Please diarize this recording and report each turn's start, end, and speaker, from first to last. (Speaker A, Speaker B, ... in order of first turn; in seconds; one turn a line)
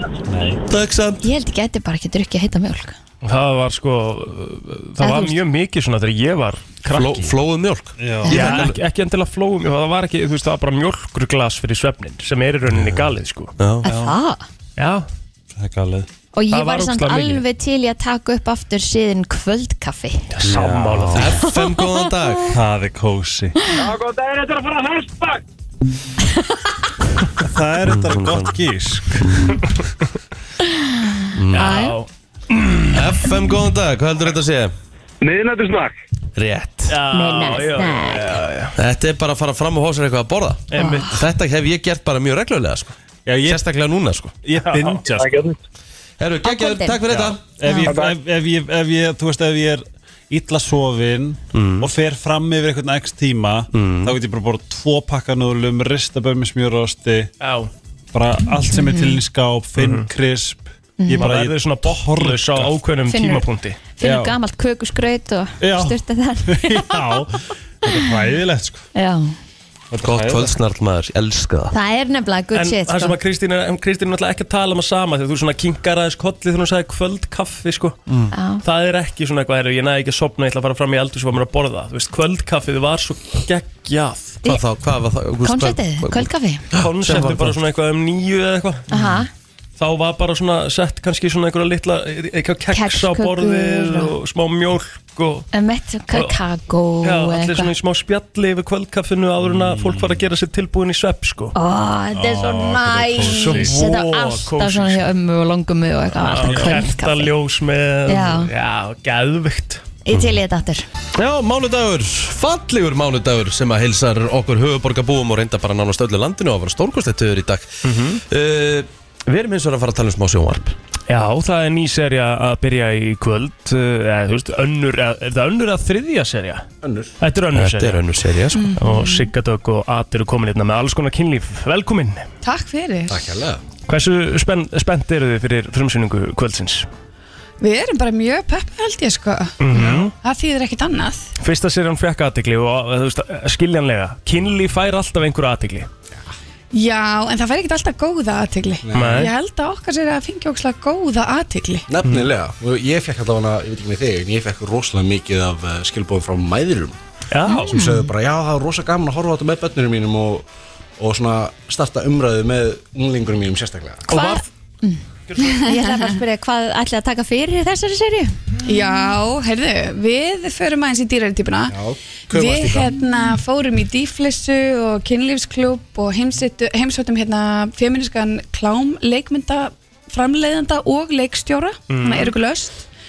Speaker A: 0.2-0.6
Speaker B: 0.7-1.2
Speaker C: 1.2-3.0
Speaker D: 3.2-7.3
Speaker C: 5.0-5.4
Speaker B: 6.9-8.8
Speaker A: 8.0-8.5
Speaker C: 8.2-8.6
Speaker D: 8.3-13.5
Speaker A: 12.7-13.0
Speaker B: 13.6-13.8
Speaker A: 13.8-14.2
Speaker C: 13.8-14.4
Speaker D: 14.8-15.1
Speaker A: 15.5-16.1
Speaker C: 16.3-20.2
Speaker D: 16.5-17.4
Speaker D: 20.3-21.4
Speaker A: 20.4-21.4
Speaker B: 21.1-22.6
Speaker C: 21.5-21.9
Speaker A: 22.5-23.6
Speaker E: 23.7-25.4
Speaker A: 27.4-29.6
Speaker B: 27.9-28.5
Speaker B: 29.2-29.6
Speaker B: 31.3-31.8
Speaker D: 31.5-33.0
Speaker C: 31.5-31.9
Speaker B: 32.9-34.7
Speaker E: 35.2-35.9
Speaker B: 36.4-37.0
Speaker D: 36.9-38.8
Speaker C: 37.1-38.4
Speaker B: 38.8-44.3
Speaker D: 40.7-41.1
Speaker C: 40.8-41.1
Speaker A: 43.2-43.6
Speaker A: 44.4-45.4
Speaker D: 44.6-45.0
Speaker E: 45.1-45.6
Speaker B: 46.2-47.4
Speaker C: 46.4-47.0
Speaker A: 47.1-57.3
Speaker C: 47.6-47.9
Speaker E: 47.9-48.1
Speaker B: 51.5-51.9
Speaker B: 53.7-54.1
Speaker D: 57.4-57.7
Speaker A: 58.1-62.8
Speaker C: 58.7-59.2
Speaker D: 59.8-60.0
Speaker C: 61.0-61.3
Speaker D: 61.1-63.8
Speaker C: 63.1-63.4
Speaker C: 64.0-67.2
Speaker A: 64.0-64.3
Speaker A: 65.6-68.8
Speaker C: 68.9-69.3
Speaker A: 69.9-70.5
Speaker B: 70.0-71.7
Speaker C: 71.7-73.2
Speaker D: 72.5-78.0
Speaker C: 78.3-78.6
Speaker D: 78.6-84.4
Speaker B: 84.4-87.5
Speaker C: 85.4-86.6
Speaker D: 86.7-88.9
Speaker C: 88.9-89.3
Speaker D: 89.8-95.5
Speaker C: 92.7-94.1
Speaker C: 95.5-97.7
Speaker D: 96.1-96.4
Speaker D: 97.0-101.5
Speaker A: 99.4-100.2
Speaker C: 101.5-107.3
Speaker A: 102.1-103.8
Speaker D: 103.2-105.1
Speaker D: 106.2-109.8
Speaker A: 106.4-106.8
Speaker C: 108.1-108.5
Speaker C: 110.0-110.8
Speaker B: 111.1-120.7
Speaker D: 117.8-118.2
Speaker D: 121.1-126.7
Speaker F: 126.8-127.1
Speaker D: 127.2-128.0
Speaker B: 127.5-128.7
Speaker G: 128.5-129.3
Speaker D: 128.8-132.2
Speaker G: 132.4-133.2
Speaker F: 133.1-133.6
Speaker D: 133.9-136.9
Speaker G: 137.6-141.3
Speaker D: 139.6-140.1
Speaker F: 139.7-140.0
Speaker D: 141.4-145.9
Speaker G: 146.7-151.8
Speaker F: 148.8-149.3
Speaker D: 148.9-149.3
Speaker F: 151.9-157.0
Speaker D: 157.3-157.7
Speaker C: 157.5-158.1
Speaker F: 157.6-160.4
Speaker F: 161.0-164.1
Speaker C: 164.1-168.3
Speaker D: 164.1-164.4
Speaker G: 165.4-166.1
Speaker G: 168.6-171.8
Speaker F: 171.7-172.9
Speaker G: 172.3-182.8
Speaker D: 181.9-182.3